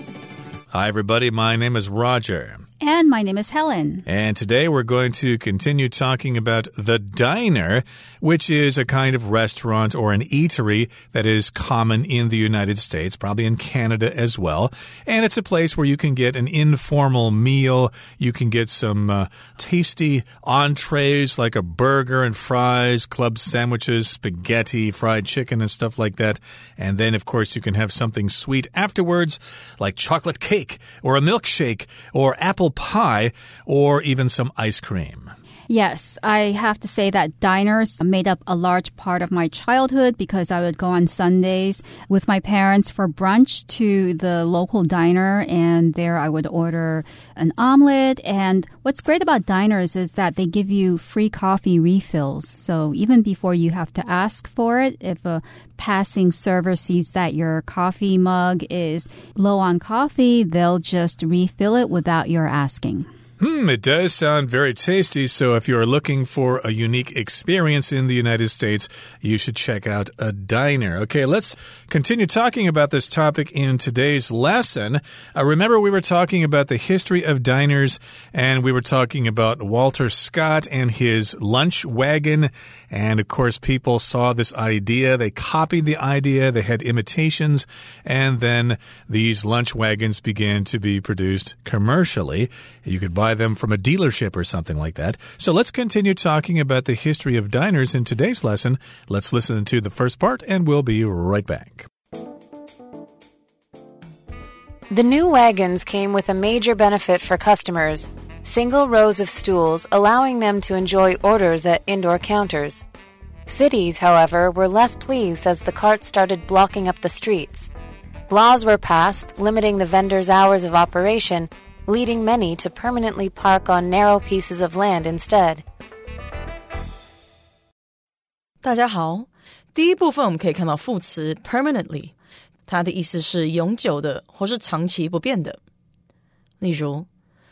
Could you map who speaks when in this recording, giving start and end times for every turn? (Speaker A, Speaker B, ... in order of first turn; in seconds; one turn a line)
Speaker A: 0.7-2.6
Speaker B: 2.8-4.0
Speaker A: 4.0-35.3
Speaker B: 35.7-63.1
Speaker A: 63.4-101.9
Speaker C: 104.9-112.8
Speaker C: 113.5-117.7
Speaker C: 118.3-125.6
Speaker D: 128.6-132.1
Speaker D: 132.7-135.6
Speaker D: 136.6-137.1